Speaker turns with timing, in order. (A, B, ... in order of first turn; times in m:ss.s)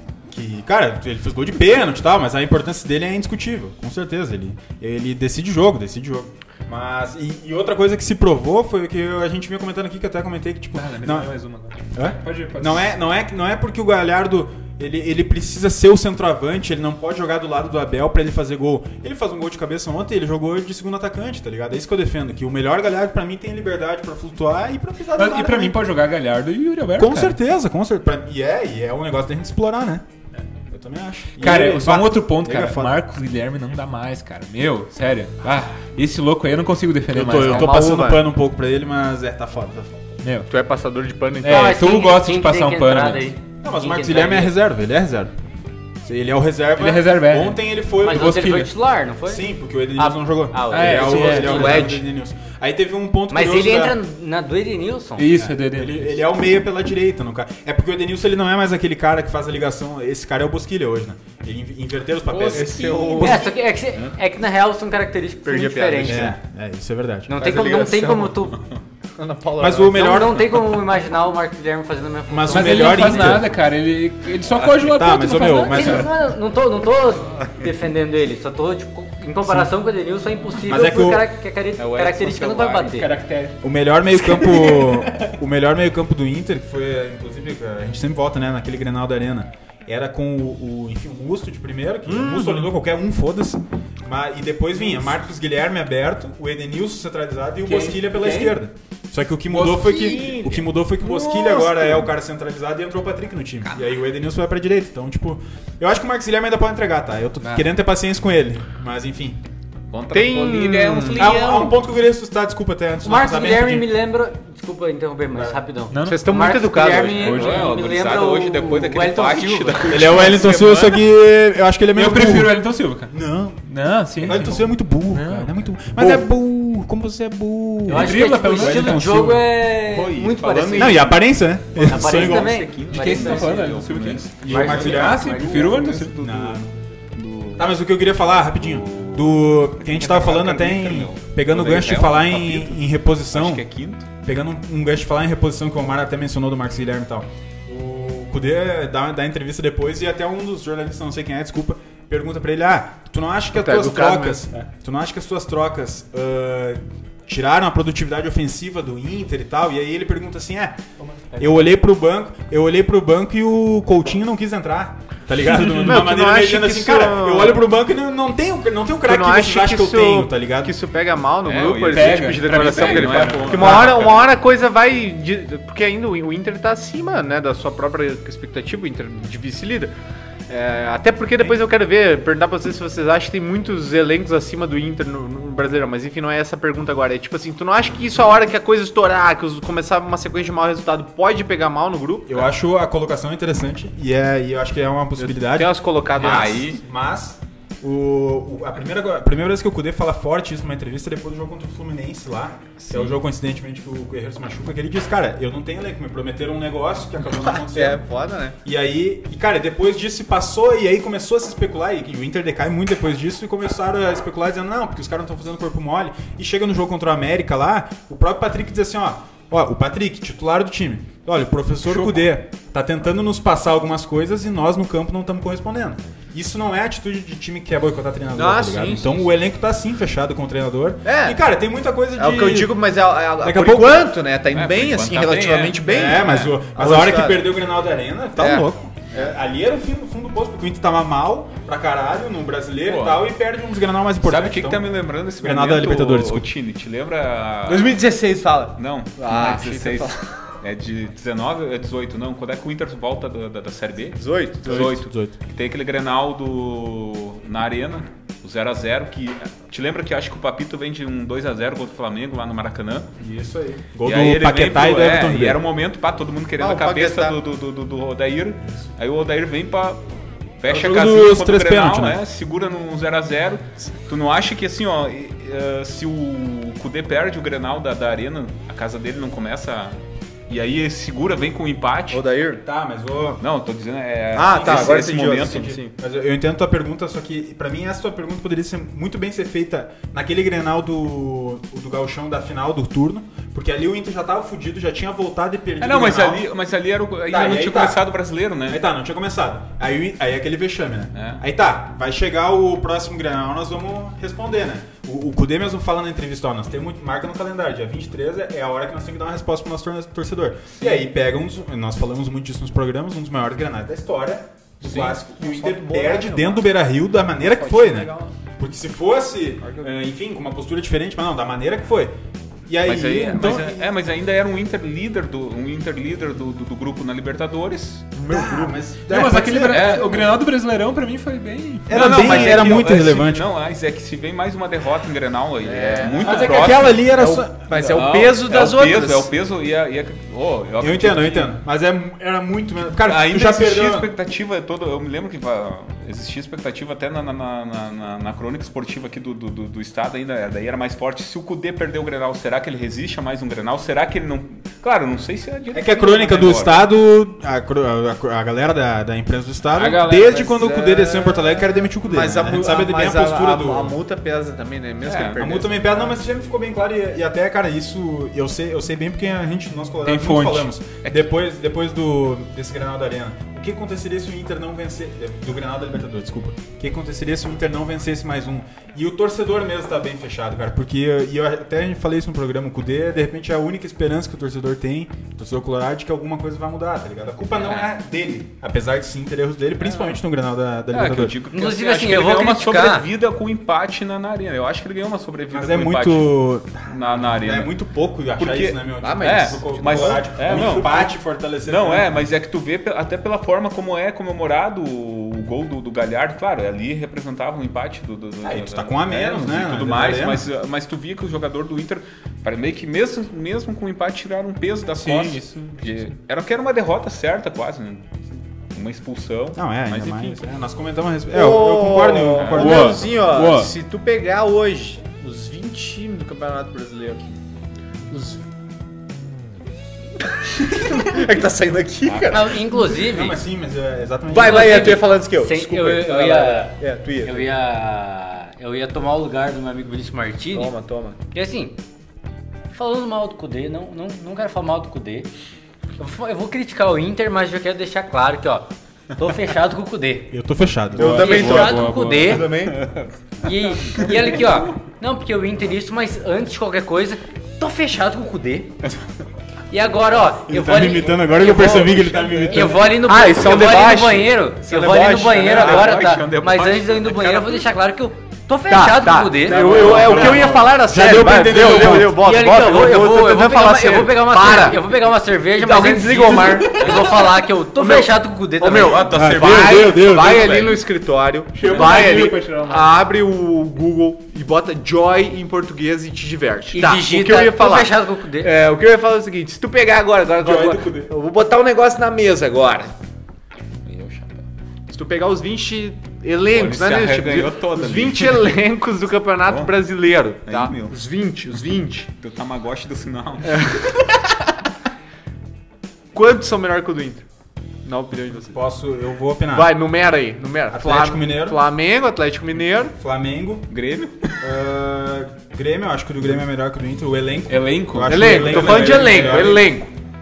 0:00.3-0:11.3 A
0:10.7-0:12.9 B
0:11.9-0:25.8 A
0:25.2-0:27.4 B
0:27.0-0:30.0 A
0:30.7-0:33.0 A
0:31.4-0:37.8 B
0:37.1-0:40.1 A
0:37.2-0:38.3 C
0:40.2-0:40.5 B
0:40.5-0:41.7 C
0:41.4-0:43.3 B
0:41.4-0:44.5 D
0:43.6-0:45.3 A
0:46.0-0:48.7 A
0:46.8-0:47.6 B
0:48.0-0:51.9 D
0:48.2-0:48.6 B
0:49.2-0:54.0 A
0:50.7-0:51.7 B
0:51.4-0:52.0 C
0:53.3-0:55.3 D
0:55.2-0:56.0 B
0:55.3-1:03.5 A
1:02.3-1:06.3 D
1:02.4-1:03.5 C
1:05.4-1:06.3 C
1:06.0-1:07.3 A
1:07.3-1:08.6 D
1:07.4-1:08.4 C
1:09.2-1:10.1 C
1:09.6-1:10.6 A
1:09.9-1:13.3 D
1:12.3-1:13.5 A
1:12.5-1:16.1 B
1:14.7-1:16.1 A
1:15.2-1:23.1 D
1:20.7-1:21.3 A
1:21.8-1:23.0 E
1:22.9-1:23.6 B
1:23.6-1:49.4 A
1:24.3-1:25.3 B
1:32.1-1:32.7 C
1:37.7-1:38.6 B
1:39.7-1:40.3 B
1:40.1-1:40.5 C
1:41.1-1:42.0 C
1:43.6-1:43.9 E
1:47.4-1:47.7 B
1:49.9-1:51.7 E
1:50.1-1:51.6 C
1:51.2-1:53.9 A
1:53.0-2:00.2 D
1:55.3-1:55.6 A
1:55.9-1:56.3 B
1:56.0-1:57.5 C
1:57.2-1:57.8 B
1:57.2-2:01.0 E
1:59.9-2:03.6 A
2:01.9-2:03.1 B
2:03.6-2:06.1 B
2:04.2-2:09.4 A
2:07.9-2:09.4 B
2:07.9-2:11.2 D
2:09.7-2:11.2 E
2:10.7-2:12.7 A
2:11.7-2:14.9 E
2:11.8-2:13.5 D
2:12.9-2:16.2 B
2:14.4-2:16.7 A
2:14.5-2:15.8 D
2:15.5-2:17.8 E
2:17.6-2:23.6 A
2:18.6-2:22.8 E
2:23.3-2:24.0 E
2:24.2-2:40.8 A
2:33.5-2:34.4 C
2:41.4-2:50.7 A
2:45.6-2:47.6 C
2:49.0-2:59.9 C
2:51.4-2:54.3 E
2:51.9-2:53.8 B
2:53.6-2:54.0 A
3:00.5-3:12.4 C
3:12.3-3:28.0 A
3:15.2-3:16.7 C
3:16.2-3:16.8 E
3:22.8-3:23.2 E
3:27.3-3:28.6 C
3:28.6-3:52.8 A
3:48.3-3:49.3 C
3:51.0-3:51.4 C
3:52.2-3:57.4 C
3:53.4-3:54.1 A
3:54.5-3:56.1 E
3:55.8-4:06.5 A
3:58.4-3:59.3 C
4:02.8-4:03.3 E
4:04.2-4:08.0 E
4:07.7-4:10.2 C
4:08.8-4:23.1 E
4:14.2-4:14.7 C
4:14.6-4:15.3 A
4:23.2-4:25.6 A
4:24.0-4:30.0 E
4:26.6-4:27.4 C
4:30.6-4:42.2 E
4:30.7-4:32.2 A
4:42.1-4:42.6 C
4:42.6-4:43.4 A
4:43.4-4:45.8 E
4:44.4-4:56.4 A
4:44.4-4:45.9 C
4:55.8-4:58.8 E
4:57.3-4:58.1 A
4:58.7-5:22.1 A
5:01.1-5:01.4 E
5:14.8-5:16.7 C
5:17.3-5:18.3 C
5:22.7-5:23.9 A
5:22.8-5:28.1 E
5:28.1-5:28.9 C
5:28.3-5:30.3 A
5:29.0-5:32.2 B
5:29.7-5:30.1 E
5:31.9-5:33.5 A
5:31.9-5:37.1 E
5:32.2-5:32.6 C
5:35.6-5:39.3 C
5:36.2-5:38.0 A
5:37.8-5:41.6 E
5:40.8-5:44.1 A
5:43.1-5:56.8 E
5:55.7-6:04.0 A
5:59.8-6:00.5 B
6:00.1-6:06.2 C
6:05.0-6:05.5 E
6:05.4-6:31.4 A
6:10.0-6:10.7 B
6:11.0-6:11.3 E
6:27.6-6:27.9 E
6:30.9-6:37.7 E
6:31.5-6:33.1 D
6:35.5-6:42.1 A
6:38.4-6:41.1 E
6:39.0-6:41.0 C
6:41.6-6:58.1 E
6:48.4-6:50.4 A
6:55.0-6:55.8 B
6:58.7-7:00.4 E
6:59.6-7:03.0 A
7:01.3-7:07.2 C
7:02.3-7:02.9 E
7:02.6-7:03.7 B
7:08.1-7:08.4 C
7:10.2-7:12.6 C
7:12.3-7:13.4 D
7:12.8-7:15.0 A
7:14.3-7:17.5 C
7:14.3-7:20.7 D
7:20.5-7:21.2 C
7:21.3-7:21.8 D
7:22.7-7:25.3 D
7:26.0-7:30.3 D
7:30.3-7:31.2 A
7:30.9-7:32.5 B
7:30.9-7:32.8 C
7:31.1-7:32.5 D
7:32.7-7:33.1 E
7:33.4-7:38.7 D
7:33.9-7:34.7 E
7:39.7-7:50.3 D
7:40.5-7:42.9 A
7:42.6-7:46.1 C
7:45.2-7:47.7 E
7:48.7-7:54.9 C
7:49.5-7:50.7 E
7:49.6-7:52.2 A
7:49.7-7:50.4 B
7:51.9-7:59.0 D
7:55.6-8:12.9 C
7:58.7-8:00.8 E
7:59.1-8:00.5 A
7:59.3-8:00.0 B
8:01.5-8:02.9 B
8:01.7-8:02.0 E
8:06.7-8:08.5 D
8:10.4-8:11.1 A
8:13.8-8:14.4 E
8:14.9-8:22.1 C
8:16.5-8:18.6 E
8:19.4-8:19.7 E
8:20.4-8:21.0 E
8:22.2-8:23.6 E
8:23.6-8:24.0 C
8:26.1-8:27.2 C
8:27.8-8:28.6 C
8:28.3-8:29.7 A
8:29.5-8:32.9 C
8:30.7-8:31.6 A
8:32.9-8:33.7 A
8:33.7-8:34.4 E
8:34.4-8:39.8 A
8:37.5-8:39.5 B
8:38.1-8:39.9 C
8:38.7-8:39.1 E